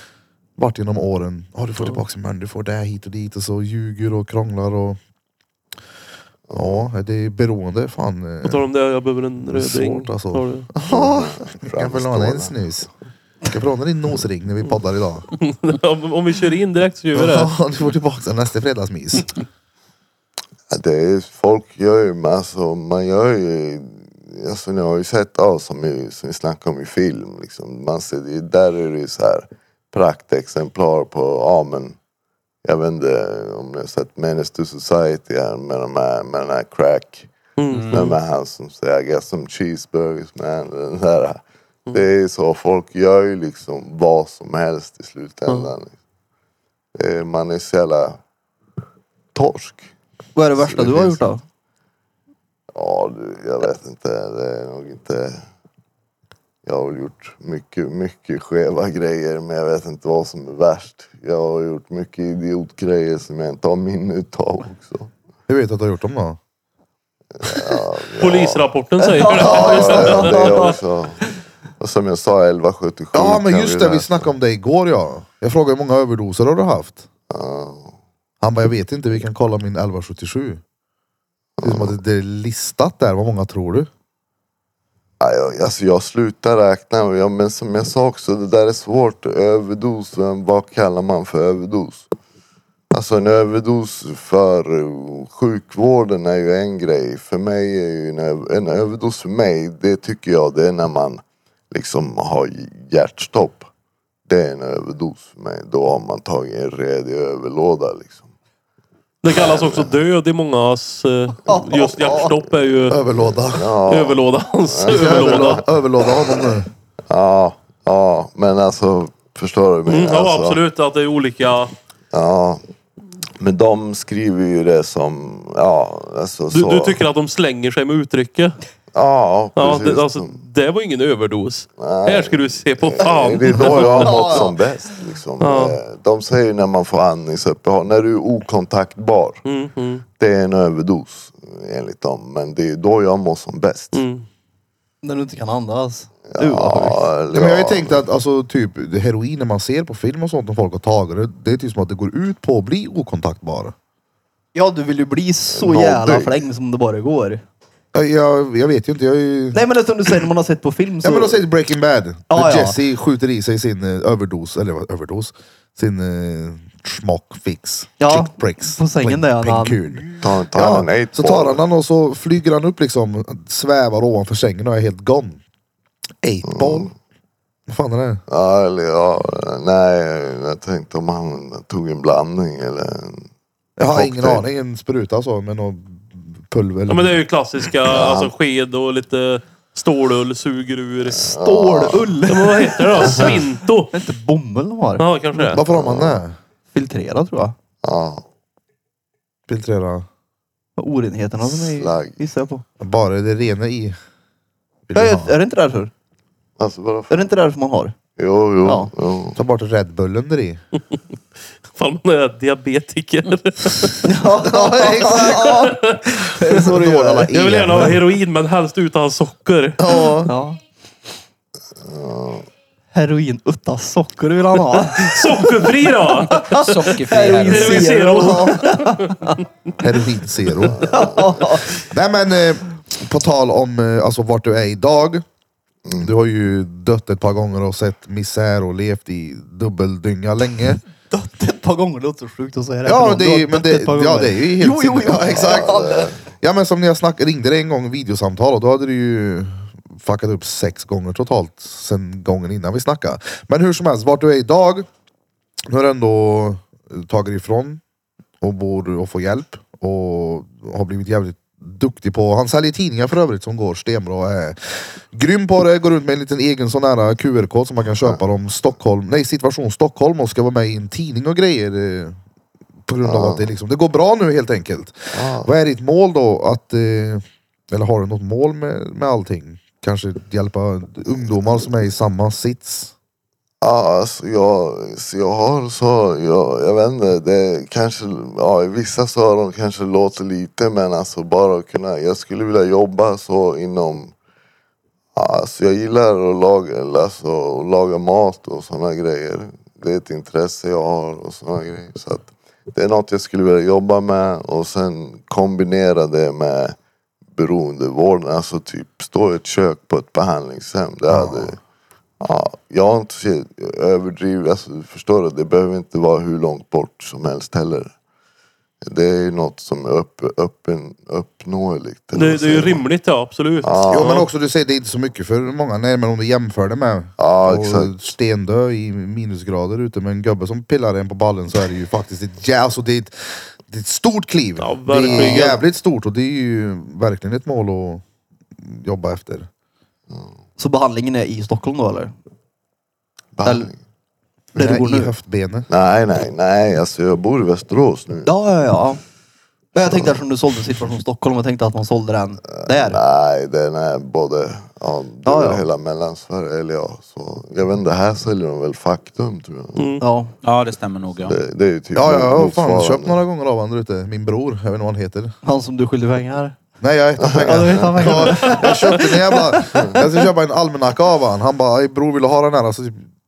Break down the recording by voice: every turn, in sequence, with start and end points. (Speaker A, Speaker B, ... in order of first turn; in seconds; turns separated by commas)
Speaker A: 0.6-5.0, Speaker B: 6.5-6.9, Speaker A: 6.5-8.7, Speaker C: 8.4-10.7, Speaker A: 9.4-12.9, Speaker B: 10.9-12.6, Speaker A: 13.5-15.3, Speaker C: 15.4-17.5, Speaker A: 17.1-19.3, Speaker B: 20.7-32.0, Speaker B: 32.6-37.3, Speaker C: 37.6-38.2, Speaker D: 37.7-38.1, Speaker B: 37.9-41.4, Speaker B: 41.9-45.9, Speaker B: 47.0-48.2, Speaker B: 49.3-49.9, Speaker E: 50.4-51.4, Speaker B: 50.6-51.2, Speaker B: 52.7-55.4, Speaker B: 56.6-65.1, Speaker A: 65.5-66.4, Speaker B: 67.4-68.7, Speaker C: 68.2-70.8, Speaker E: 69.0-70.6, Speaker B: 69.3-71.2, Speaker A: 69.9-70.2, Speaker B: 71.8-74.2, Speaker A: 73.1-77.1, Speaker B: 77.3-77.9, Speaker A: 78.4-80.6, Speaker B: 81.6-82.0, Speaker A: 81.6-83.9, Speaker B: 85.2-92.1, Speaker B: 92.9-103.7, Speaker B: 104.3-108.2, Speaker C: 109.2-113.0, Speaker B: 109.3-109.9, Speaker E: 111.5-112.3, Speaker A: 112.9-113.7, Speaker B: 113.1-115.7, Speaker C: 113.9-115.6, Speaker A: 114.9-116.7, Speaker B: 117.1-120.6, Speaker C: 119.9-121.7, Speaker B: 122.1-122.6, Speaker B: 123.4-127.0, Speaker C: 126.5-128.6, Speaker B: 128.9-130.4, Speaker C: 129.6-134.5, Speaker B: 131.8-139.4, Speaker E: 134.1-134.4, Speaker C: 135.4-135.8, Speaker C: 139.4-140.0, Speaker B: 140.2-144.0, Speaker C: 143.9-144.2, Speaker E: 145.0-147.1, Speaker B: 146.3-148.0, Speaker A: 147.3-153.7, Speaker E: 154.5-157.4, Speaker B: 155.5-156.4, Speaker A: 157.9-159.6, Speaker E: 159.5-161.4, Speaker A: 161.0-175.4, Speaker E: 162.3-162.8, Speaker E: 168.0-170.0, Speaker B: 170.2-171.6, Speaker A: 176.2-176.9, Speaker B: 176.5-176.9, Speaker A: 177.7-178.2, Speaker B: 178.3-183.3, Speaker A: 183.8-187.2, Speaker B: 183.9-184.4, Speaker C: 186.9-191.3, Speaker B: 187.8-188.3, Speaker B: 191.1-192.2, Speaker E: 191.4-193.3, Speaker C: 192.3-193.9, Speaker B: 193.0-193.4, Speaker E: 193.9-195.6, Speaker C: 195.0-195.6, Speaker A: 195.5-196.3, Speaker B: 195.7-196.2, Speaker E: 196.7-197.5, Speaker B: 197.8-198.2, Speaker A: 199.5-200.1, Speaker E: 200.8-202.6, Speaker B: 201.4-202.2, Speaker A: 202.8-203.9, Speaker A: 204.9-205.3, Speaker E: 204.9-205.9, Speaker B: 206.6-207.2, Speaker E: 207.1-207.9, Speaker B: 208.2-209.4, Speaker E: 208.6-208.9, Speaker A: 209.3-210.6, Speaker C: 211.7-214.0, Speaker E: 214.0-217.9, Speaker A: 214.4-215.6, Speaker C: 215.4-216.1, Speaker A: 216.4-218.0, Speaker C: 217.3-219.8, Speaker A: 219.8-220.3, Speaker E: 220.2-220.6, Speaker B: 221.8-222.4, Speaker E: 222.9-225.7, Speaker C: 224.9-226.7, Speaker E: 226.3-229.3, Speaker D: 226.5-227.9, Speaker C: 227.5-229.3, Speaker A: 228.1-228.6, Speaker A: 229.8-235.2, Speaker B: 230.7-231.5, Speaker E: 230.9-231.7, Speaker B: 235.8-236.1, Speaker A: 236.0-240.8, Speaker E: 241.1-246.1, Speaker A: 242.8-254.9, Speaker B: 245.2-246.2, Speaker A: 255.7-257.8, Speaker A: 258.4-272.2, Speaker A: 272.9-282.9, Speaker B: 273.0-273.5, Speaker B: 275.1-275.5, Speaker B: 283.6-294.1, Speaker B: 295.1-306.7, Speaker B: 307.3-311.6, Speaker A: 311.1-311.5, Speaker B: 312.2-317.9, Speaker B: 318.8-322.8, Speaker C: 322.1-324.2, Speaker B: 323.6-324.2, Speaker A: 323.9-338.0, Speaker B: 327.2-327.9, Speaker C: 334.6-335.6, Speaker B: 335.1-335.4, Speaker A: 338.6-339.5, Speaker E: 340.6-342.1, Speaker B: 343.4-343.8, Speaker E: 343.4-343.7, Speaker E: 344.5-345.1, Speaker A: 344.5-345.7, Speaker B: 345.7-348.3, Speaker E: 348.2-349.0, Speaker E: 349.7-353.0, Speaker B: 349.9-350.1, Speaker B: 352.5-359.9, Speaker E: 355.2-355.6, Speaker C: 359.8-360.0, Speaker E: 360.0-360.3, Speaker D: 360.4-361.4, Speaker B: 361.2-363.2, Speaker A: 361.9-365.3, Speaker E: 365.4-366.6, Speaker A: 366.8-373.1, Speaker B: 367.2-368.2, Speaker E: 367.4-370.0